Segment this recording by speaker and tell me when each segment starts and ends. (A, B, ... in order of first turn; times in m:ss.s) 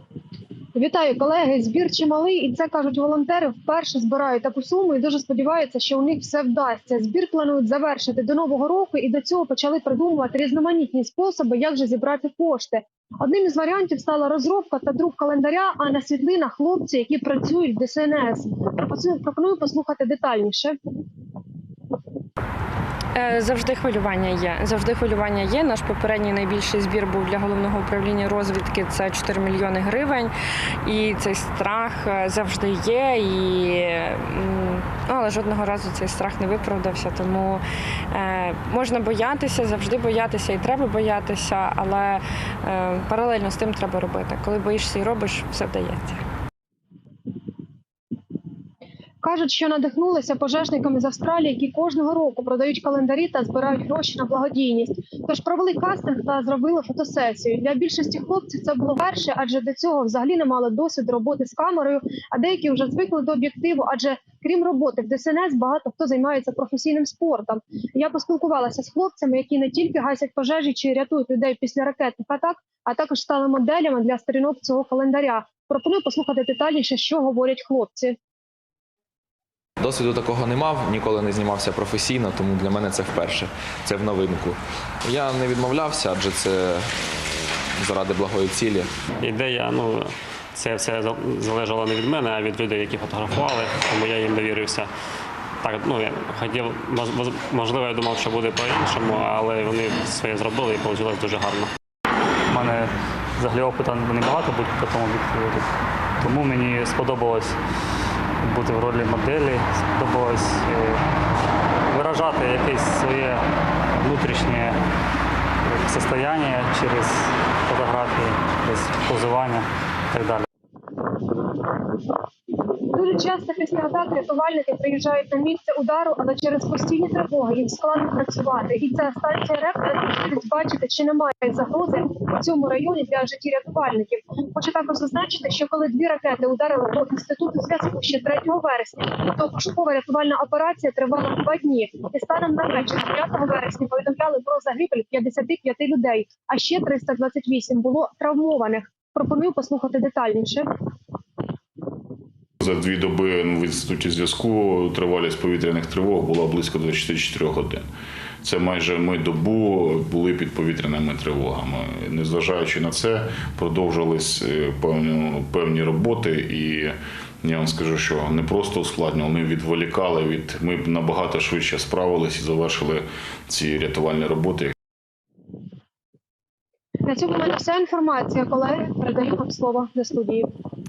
0:00.7-0:20.8 A
0:23.2-0:30.3 B
0:30.8-0:46.2 B
0:49.2-1:18.2 A
1:19.8-1:28.9 C
1:29.2-1:34.9 D
1:35.6-1:41.7 D
1:42.5-1:45.7 E
1:46.2-1:47.6 E
1:48.4-1:51.0 E
1:51.9-1:53.4 E
1:54.0-1:54.8 E
1:55.7-2:00.5 E
2:02.8-2:30.7 A
2:32.6-2:37.9 F
2:38.4-2:54.7 F
2:57.1-3:00.5 A